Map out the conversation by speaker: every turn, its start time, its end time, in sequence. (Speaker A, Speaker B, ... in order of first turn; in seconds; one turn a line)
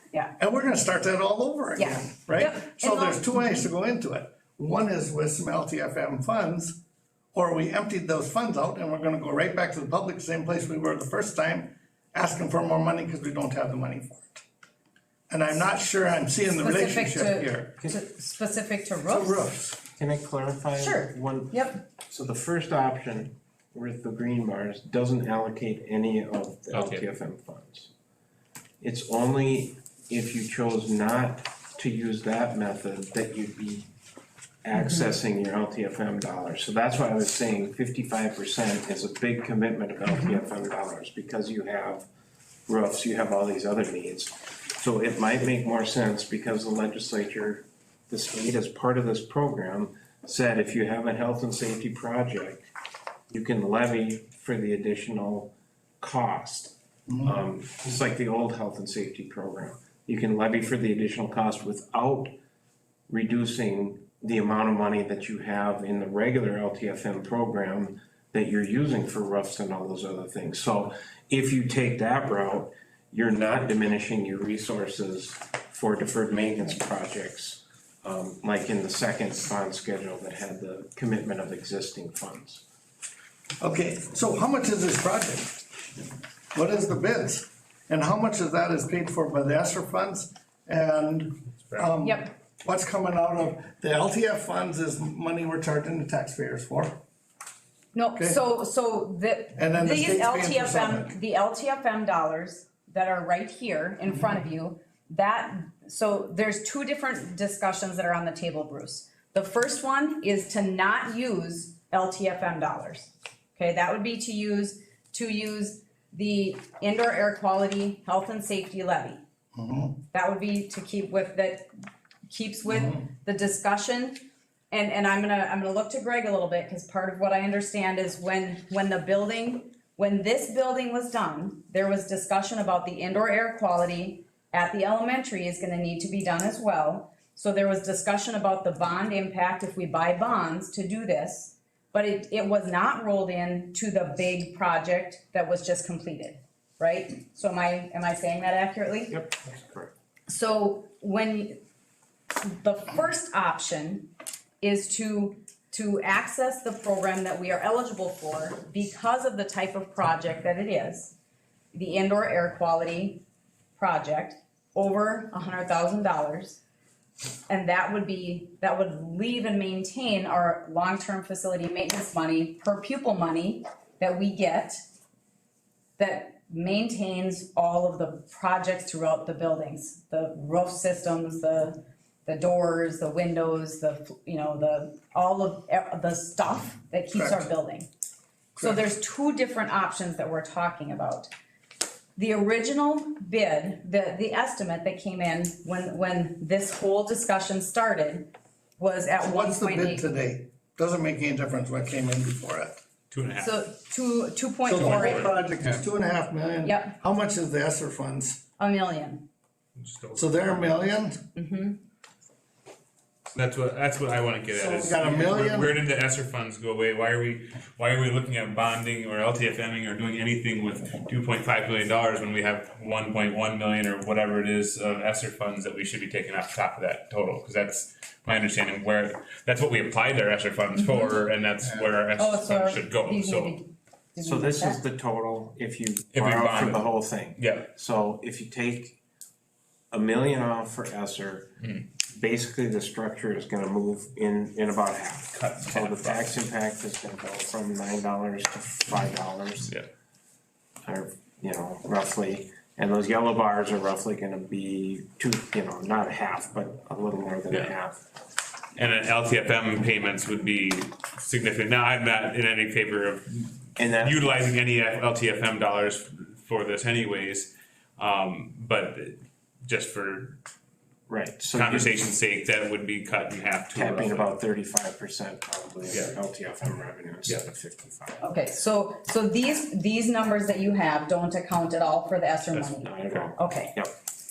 Speaker A: 0.4-6.8
Speaker B: 1.8-3.7
Speaker A: 7.3-14.4
Speaker A: 15.3-17.8
Speaker B: 16.5-19.4
Speaker A: 19.1-19.8
Speaker C: 20.0-27.9
Speaker B: 20.8-21.8
Speaker D: 26.7-27.1
Speaker C: 28.8-33.9
Speaker C: 34.6-42.1
Speaker B: 34.8-35.0
Speaker C: 42.7-52.7
Speaker C: 53.3-62.4
Speaker C: 63.1-82.7
Speaker A: 83.6-85.6
Speaker A: 86.5-97.0
Speaker B: 92.0-92.3
Speaker B: 97.9-119.2
Speaker A: 99.6-101.2
Speaker A: 119.5-120.0
Speaker B: 120.1-121.7
Speaker B: 122.3-149.1
Speaker A: 122.7-123.0
Speaker C: 149.1-149.9
Speaker B: 150.3-151.6
Speaker B: 152.4-161.2
Speaker B: 161.7-163.2
Speaker B: 163.8-166.6
Speaker B: 167.5-174.8
Speaker B: 176.0-187.9
Speaker A: 187.1-187.5
Speaker A: 188.6-188.8
Speaker B: 188.6-191.3
Speaker B: 192.2-200.1
Speaker A: 199.2-202.8
Speaker D: 203.1-203.7
Speaker B: 203.4-205.3
Speaker A: 204.7-208.4
Speaker D: 204.8-205.8
Speaker B: 206.6-207.0
Speaker B: 208.6-209.3
Speaker D: 209.8-210.7
Speaker A: 210.2-211.2
Speaker B: 211.3-211.8
Speaker D: 213.3-233.6
Speaker A: 214.5-215.7
Speaker B: 230.8-231.1
Speaker B: 232.2-234.8
Speaker C: 234.2-239.0
Speaker D: 236.1-237.7
Speaker C: 239.9-241.6
Speaker C: 242.1-249.7
Speaker D: 245.3-246.4
Speaker C: 250.9-258.0
Speaker D: 258.8-270.4
Speaker C: 263.8-264.5
Speaker C: 271.1-272.0
Speaker D: 271.5-274.4
Speaker C: 273.7-278.3
Speaker D: 275.9-276.1
Speaker B: 278.2-283.7
Speaker C: 282.8-283.9